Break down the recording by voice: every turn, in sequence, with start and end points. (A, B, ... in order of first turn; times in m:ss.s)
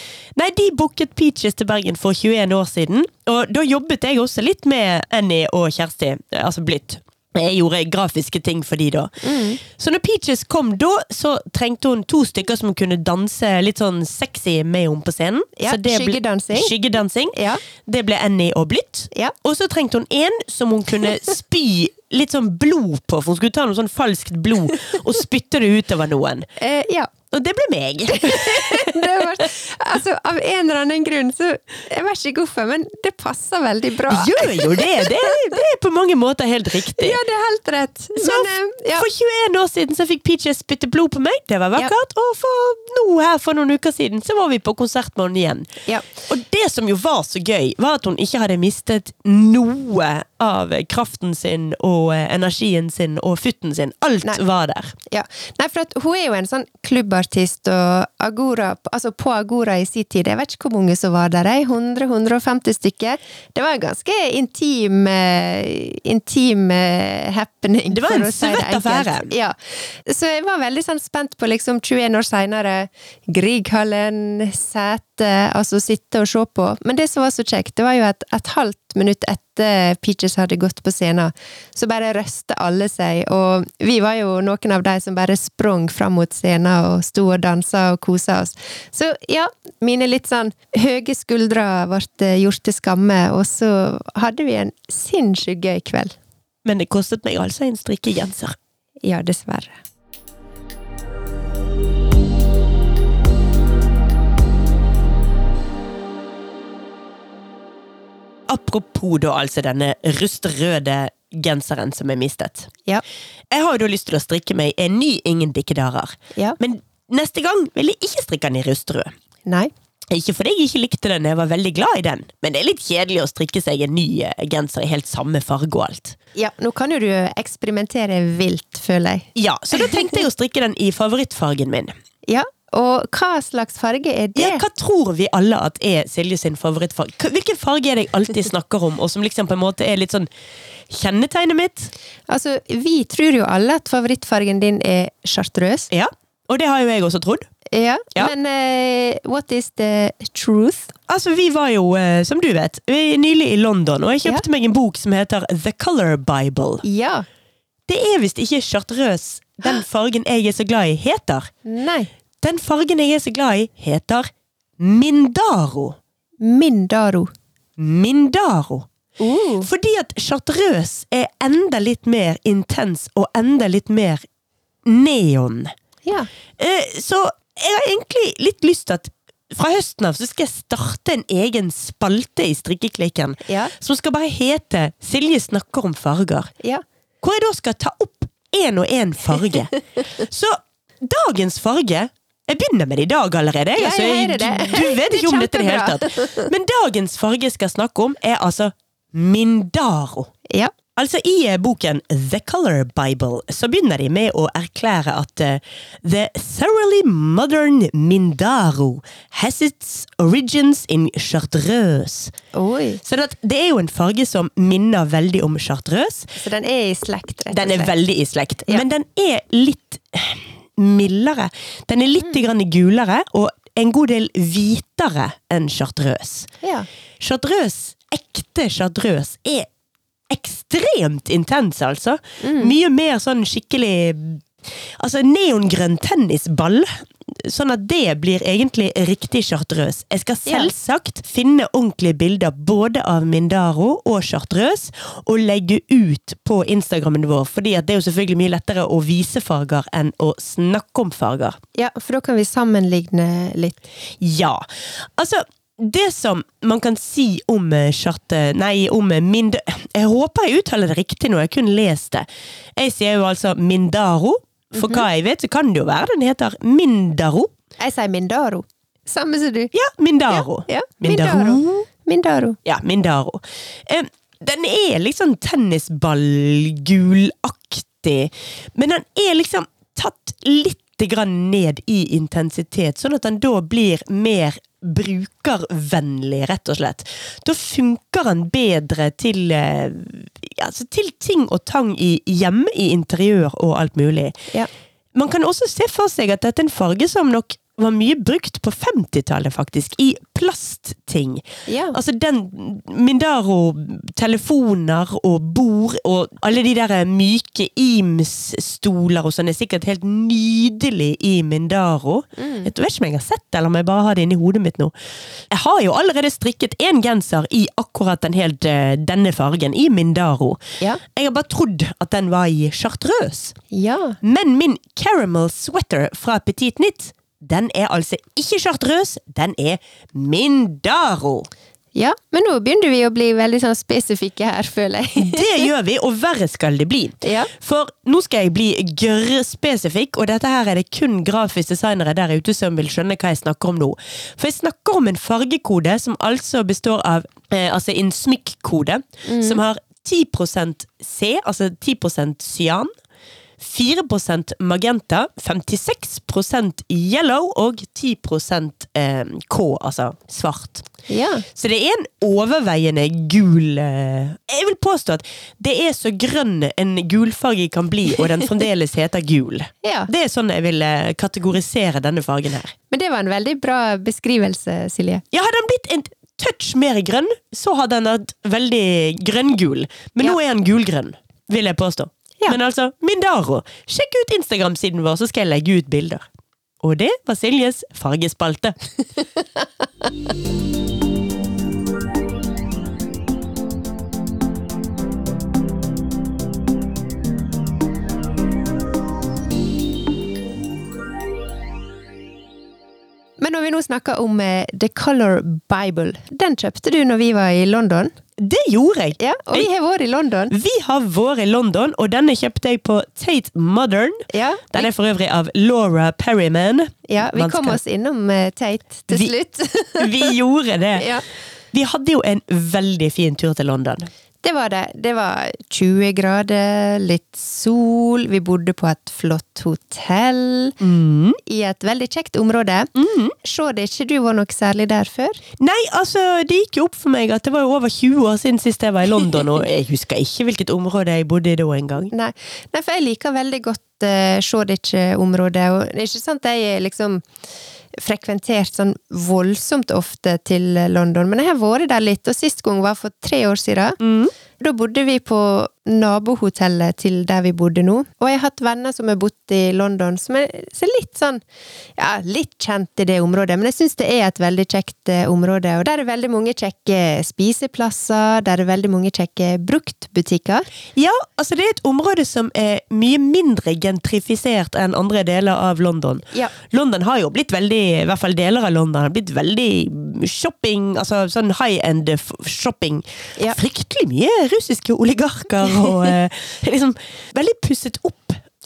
0:00.4-0:26.5 A
0:09.2-0:09.6 B
0:15.6-0:16.7 B
0:17.3-0:17.6 B
0:26.6-0:27.1 B
0:27.3-0:29.4 A
0:28.1-0:35.4 B
0:34.0-0:37.2 A
0:36.9-0:39.1 B
0:38.2-0:45.7 A
0:46.3-0:54.9 A
0:55.1-1:36.2 B
1:07.9-1:09.3 A
1:36.6-1:38.6 A
1:39.0-1:39.8 B
1:48.5-1:52.7 A
1:53.5-1:59.1 A
1:59.4-1:59.7 B
2:00.1-2:06.2 A
2:06.3-2:10.2 B
2:09.3-2:11.9 A
2:12.3-2:14.6 B
2:14.3-2:20.3 A
2:20.9-2:21.9 A
2:22.3-2:25.9 B
2:25.9-2:27.5 A
2:27.7-2:30.9 B
2:31.1-2:36.8 A
2:36.8-2:37.2 B
2:37.9-2:41.5 A
2:41.6-2:42.1 B
2:42.4-2:44.3 A
2:44.8-2:46.0 A
2:46.4-2:47.3 B
2:47.8-2:48.9 A
2:49.2-2:49.7 B
2:49.6-2:54.2 A
2:54.8-2:55.7 A
2:56.6-3:06.5 A
3:03.4-3:03.7 B
3:07.2-3:20.3 A
3:13.8-3:16.5 B
3:21.0-3:32.3 A
3:32.5-3:33.0 B
3:33.0-3:36.3 A
3:36.4-3:37.9 B
3:37.5-3:46.5 A
3:46.6-3:46.9 B
3:47.2-3:49.7 A
3:50.3-3:54.4 A
3:52.4-3:52.7 B
3:55.0-4:11.6 A
4:00.5-4:00.7 B
4:11.7-4:13.8 B
4:14.2-4:27.5 A
4:24.8-4:25.0 B
4:27.8-4:29.7 B
4:29.7-4:31.7 A
4:30.3-4:32.6 B
4:32.6-4:54.4 A
4:55.1-5:14.9 A
5:01.7-5:02.0 B
5:12.4-5:12.7 B
5:15.5-5:23.6 A
5:23.7-5:24.2 B
5:24.2-5:31.5 A
5:31.9-5:35.7 B
5:35.2-5:52.9 A
5:37.2-5:37.5 B
5:49.2-5:49.6 B
5:53.6-6:00.9 A
6:01.1-6:01.4 B
6:01.5-6:12.7 A
6:09.8-6:10.1 B
6:12.9-6:15.2 B
6:15.3-6:26.3 A
6:26.8-6:28.8 A
6:43.4-6:48.1 B
6:48.4-6:49.7 A
6:49.2-6:50.5 B
6:50.5-6:57.8 A
6:54.3-6:54.9 B
6:57.1-7:00.3 B
7:00.0-7:01.1 A
7:01.0-7:01.2 B
7:01.7-7:04.1 A
7:04.4-7:10.8 B
7:10.8-7:11.4 A
7:11.4-7:12.9 B
7:13.0-7:13.4 A
7:13.4-7:15.4 B
7:15.6-7:22.1 A
7:22.1-7:27.2 B
7:27.9-7:34.0 B
7:34.0-7:34.3 A
7:34.6-7:41.4 B
7:42.0-7:50.7 B
7:51.0-8:08.4 A